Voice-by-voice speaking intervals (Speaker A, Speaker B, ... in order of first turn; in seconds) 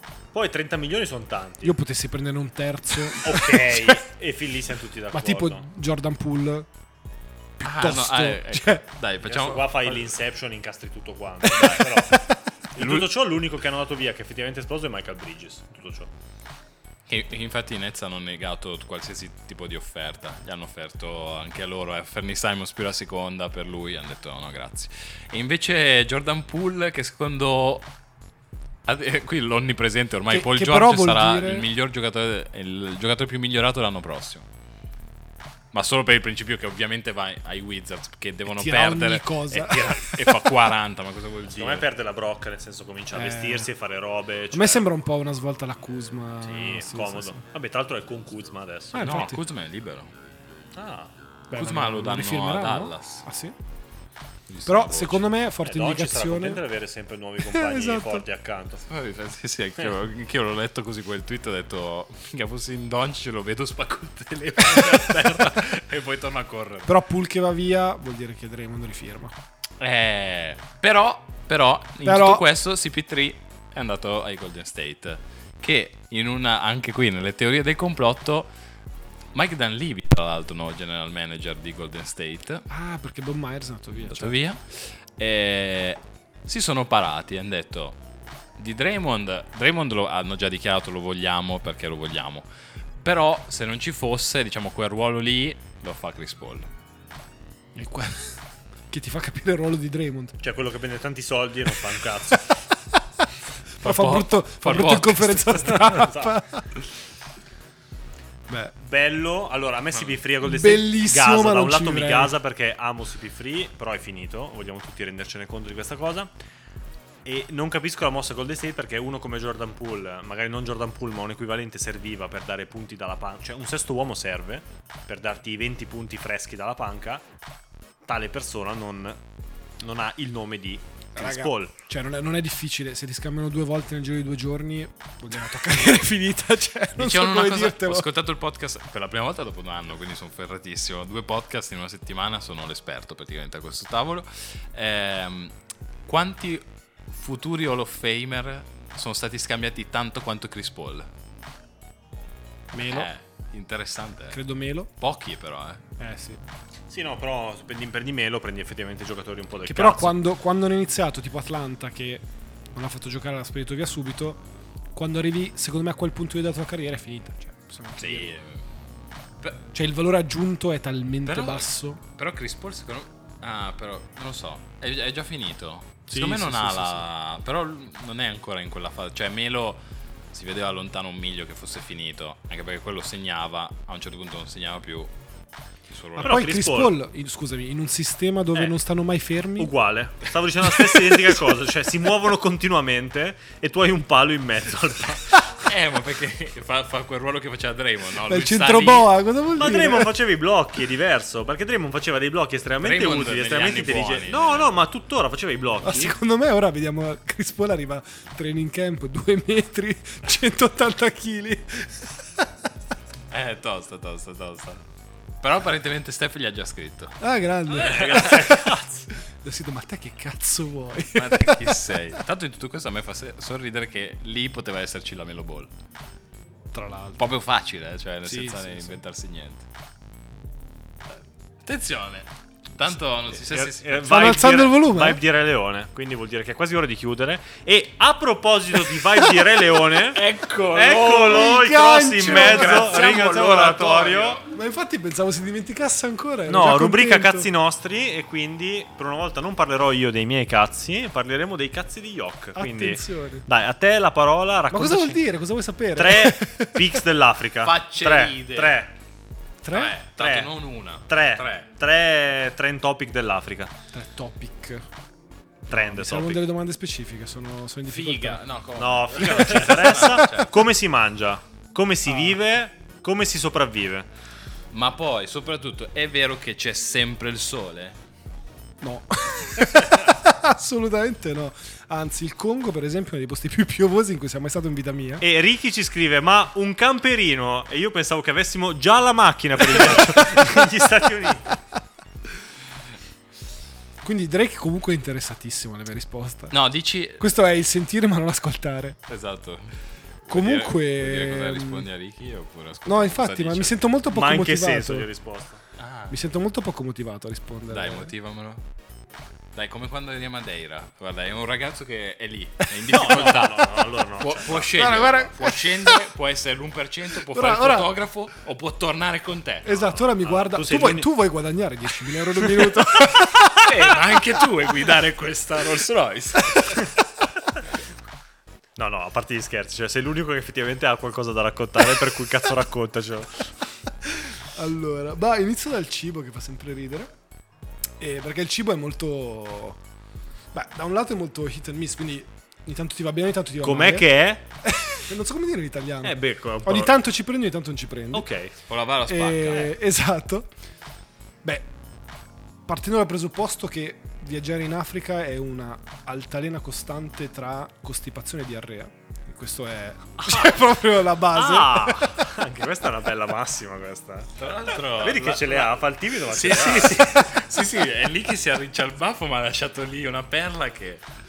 Speaker A: 0.3-1.8, 3.1-5.6, 9.2-12.2, 12.7-16.1, 41.5-44.9, 46.4-49.3, 50.8-51.1, 55.6-58.9, 100.4-102.5, 106.0-106.4, 108.8-116.3, 117.2-127.2, 128.1-129.2, 129.8-131.7, 156.9-160.2, 186.2-187.0, 189.6-195.4, 199.6-206.2, 217.7-219.1, 233.3-244.4, 246.5-255.2, 256.0-258.9, 260.2-260.5, 261.1-263.7, 265.7-266.5, 268.8-274.1, 285.2-291.6, 304.1-305.6, 312.9-315.2, 320.2-321.1, 328.8-333.5, 343.6-344.4, 346.0-347.0, 348.1-348.6, 360.3-360.6, 361.3-367.1
Speaker B: 1.6-4.0, 5.1-6.7, 7.6-8.8, 11.6-12.4, 30.3-31.7, 38.5-40.5, 43.1-43.7, 44.5-47.4, 48.9-49.4, 51.5-53.5, 54.7-56.6, 57.5-58.2, 66.9-69.3, 72.0-72.4, 82.7-84.4, 97.8-98.4, 98.9-100.4, 103.8-106.7, 108.5-108.7, 110.4-112.3, 131.2-138.1, 152.7-153.1, 154.3-154.9, 156.0-156.4, 159.7-164.4, 164.9-168.3, 169.7-172.0, 176.1-177.0, 186.2-189.7, 190.7-191.3, 198.2-200.1, 205.8-212.3, 217.2-218.8, 219.4-222.2, 226.7-227.3, 228.2-229.0, 234.1-235.2, 241.2-243.3, 244.5-247.5, 252.6-253.5, 254.7-257.0, 259.6-259.9, 263.9-264.9, 265.7-268.5, 272.1-272.4, 278.8-285.2, 294.0-296.6, 297.2-299.0, 300.3-301.9, 302.9-305.1, 306.1-308.1, 314.7-316.1, 317.2-317.9, 319.6-323.7, 334.1-337.1, 338.0-339.8, 340.5-344.1, 344.6-348.3, 349.1-350.5, 352.7-362.2
Speaker C: 7.6-10.0, 12.8-13.1, 17.1-27.9, 28.9-34.5, 35.7-41.9, 49.0-50.1, 51.5-53.3, 54.5-55.3, 58.9-66.9, 69.8-78.5, 79.3-82.7, 84.0-88.0, 88.6-92.5, 93.0-96.7, 103.8-105.9, 137.0-145.5, 146.1-151.1, 152.8-154.4, 155.0-155.8, 168.0-168.6, 169.4-169.7, 171.2-185.1, 185.9-186.5, 195.6-199.1, 202.8-204.8, 213.3-214.8, 215.4-217.2, 217.8-218.3, 221.2-225.7, 227.2-229.7, 231.6-234.2, 240.1-241.5, 242.2-244.4, 257.6-258.8, 259.7-261.7, 267.9-270.6, 274.7-278.0, 296.5-297.2, 299.1-303.9, 305.8-306.1, 307.7-308.6, 309.5-320.0, 322.4-326.9, 348.7-349.7, 364.4-371.1